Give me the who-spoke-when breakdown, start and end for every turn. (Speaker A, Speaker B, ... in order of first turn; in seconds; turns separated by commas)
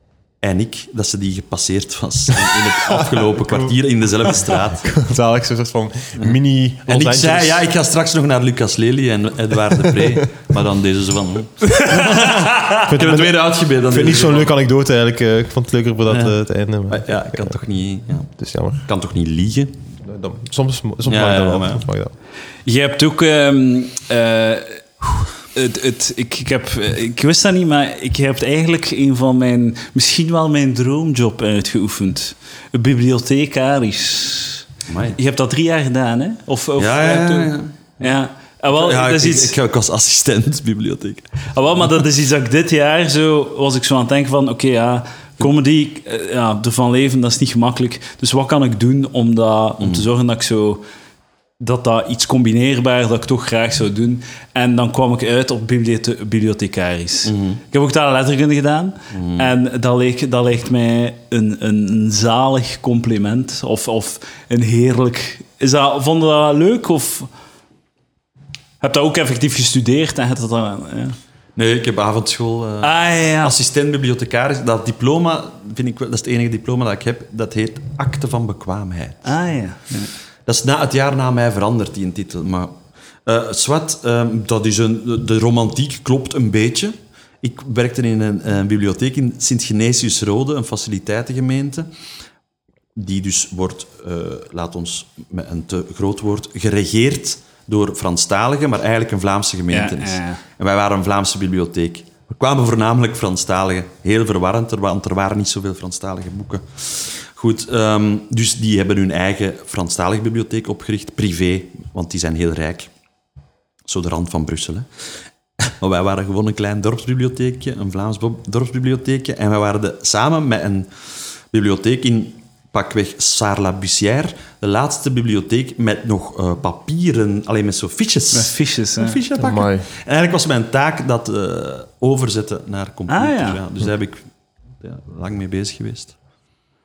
Speaker A: 0.4-4.9, Speaker B: 2.9-3.7, Speaker B: 4.8-7.6, Speaker A: 6.9-14.6, Speaker B: 9.9-10.2, Speaker C: 11.6-12.8, Speaker B: 12.9-17.6, Speaker A: 16.1-16.4, Speaker A: 16.9-18.3, Speaker B: 18.4-18.8, Speaker A: 18.9-19.7, Speaker B: 20.0-22.1, Speaker A: 21.1-21.8, Speaker C: 22.6-24.8, Speaker C: 25.5-39.5, Speaker A: 34.9-35.2, Speaker A: 36.8-37.7, Speaker A: 38.7-41.9, Speaker C: 41.5-50.8, Speaker C: 51.6-67.3, Speaker A: 57.2-57.6, Speaker A: 59.1-59.5, Speaker C: 68.8-71.2, Speaker A: 71.5-79.3, Speaker C: 72.8-73.5, Speaker C: 79.2-80.1, Speaker A: 80.5-82.7, Speaker A: 83.2-91.9, Speaker A: 93.0-112.9, Speaker C: 99.7-100.4, Speaker A: 113.9-114.9, Speaker A: 115.7-120.9, Speaker A: 121.5-134.2, Speaker C: 128.3-129.2, Speaker B: 129.4-129.9, Speaker C: 133.1-133.6, Speaker A: 134.8-136.1